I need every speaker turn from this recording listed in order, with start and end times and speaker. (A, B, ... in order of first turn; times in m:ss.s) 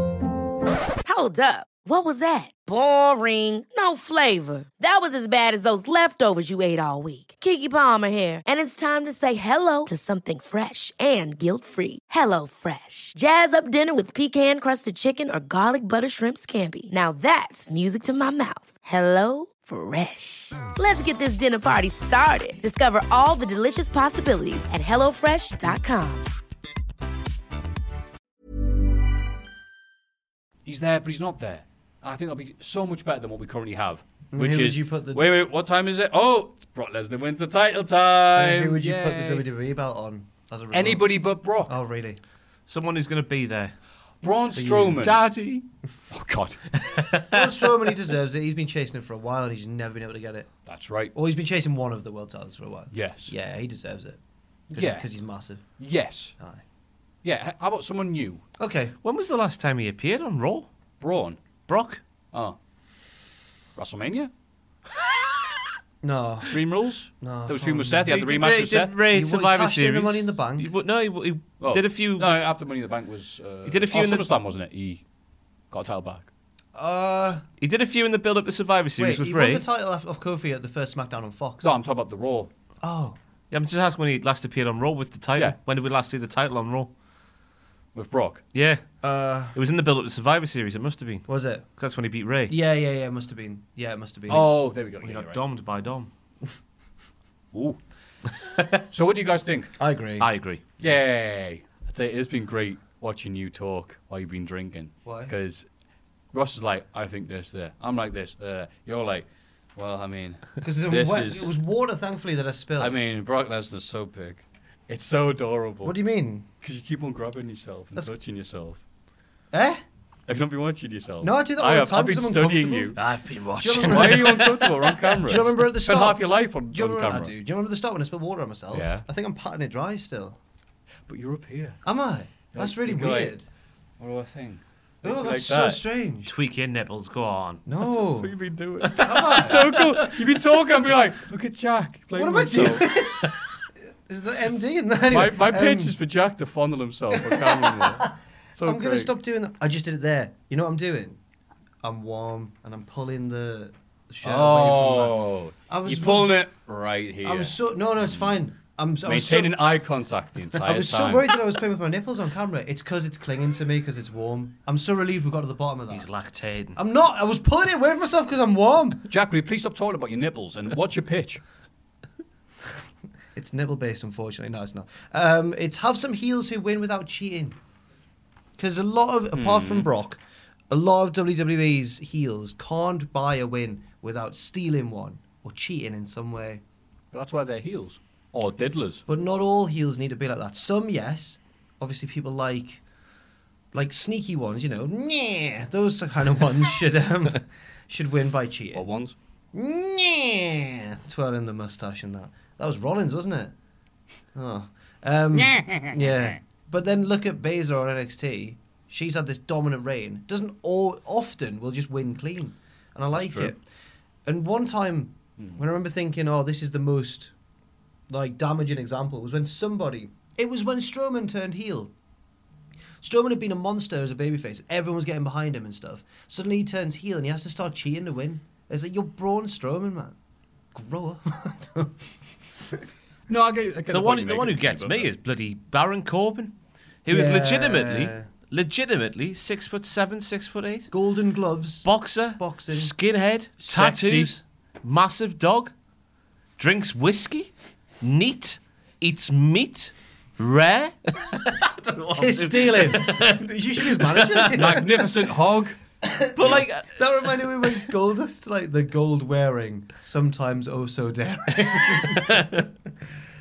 0:01.0-0:26.3 A
0:30.6-0:39.4 B
0:34.3-0:35.3 C
0:38.3-0:42.2 C
0:40.7-0:41.8 B
0:42.7-0:43.7 D
0:44.2-0:45.2 B
0:44.6-0:45.0 C
0:45.0-0:45.6 D
0:46.1-0:46.6 B
0:46.7-0:47.5 D
0:47.3-0:50.5 C
0:50.6-0:51.1 B
0:51.1-0:54.2 C
0:52.9-0:53.3 B
0:54.7-0:55.6 C
0:54.7-0:55.1 B
0:55.8-0:56.3 B
0:57.2-0:58.4 B
0:58.6-0:58.9 C
0:59.0-1:00.7 D
1:01.0-1:01.4 B
1:01.7-1:02.0 D
1:02.3-1:02.6 B
1:03.8-1:04.3 B
1:06.0-1:06.5 C
1:06.5-1:08.9 B
1:07.2-1:08.2 C
1:08.1-1:12.3 D
1:09.0-1:10.7 C
1:11.6-1:15.0 B
1:13.6-1:14.3 D
1:15.7-1:16.3 B
1:16.7-1:17.4 C
1:17.6-1:19.6 D
1:19.0-1:21.7 C
1:21.6-1:22.5 B
1:22.8-1:23.2 C
1:23.5-1:26.9 D
1:27.9-1:28.4 B
1:28.5-1:29.0 D
1:29.0-1:29.6 C
1:29.5-1:32.5 D
1:31.3-1:31.6 C
1:32.5-1:34.5 C
1:34.3-1:35.4 B
1:35.0-1:36.1 D
1:37.5-1:37.8 B
1:38.9-1:39.7 B
1:39.8-1:40.3 C
1:40.2-1:40.6 D
1:40.8-1:45.7 B
1:45.0-1:45.3 C
1:46.3-1:51.5 B
1:50.6-1:53.0 C
1:52.8-1:56.0 B
1:55.8-1:56.4 C
1:56.6-1:58.8 B
1:59.5-1:59.8 C
2:00.3-2:03.0 B
2:01.2-2:03.0 C
2:03.0-2:05.2 D
2:03.6-2:04.5 C
2:03.8-2:07.3 B
2:05.2-2:10.4 C
2:08.7-2:09.0 B
2:11.1-2:11.8 B
2:11.8-2:13.4 C
2:12.5-2:13.4 B
2:14.0-2:15.8 B
2:15.0-2:16.3 C
2:16.2-2:17.6 D
2:17.6-2:18.3 C
2:17.8-2:22.9 B
2:18.8-2:20.2 D
2:19.0-2:19.6 C
2:22.1-2:23.3 C
2:24.1-2:25.9 C
2:25.1-2:29.1 B
2:27.1-2:31.2 C
2:31.8-2:36.4 C
2:34.2-2:38.3 B
2:37.2-2:39.6 C
2:39.0-2:41.3 B
2:40.6-2:46.0 C
2:45.9-2:46.8 D
2:46.8-2:49.0 C
2:49.1-2:51.4 B
2:53.3-2:57.6 C
2:58.6-3:00.2 C
2:59.3-2:59.9 B
3:00.7-3:06.6 C
3:07.1-3:09.0 B
3:09.1-3:12.8 C
3:13.7-3:18.8 C
3:18.7-3:19.2 B
3:19.5-3:23.5 C
3:24.3-3:33.6 C
3:25.3-3:26.3 B
3:33.1-3:33.5 B
3:34.2-3:37.3 C
3:38.1-3:41.9 C
3:43.0-3:50.2 C
3:50.7-3:51.9 C
3:53.3-3:55.1 B
3:53.9-3:56.5 D
3:57.0-4:00.9 D
3:57.1-3:58.3 C
4:00.9-4:02.9 C
4:01.8-4:05.7 D
4:03.6-4:04.3 B
4:06.6-4:14.3 D
4:12.1-4:15.0 C
4:14.4-4:15.8 B
4:16.0-4:22.5 C
4:16.4-4:17.8 D
4:22.1-4:22.6 D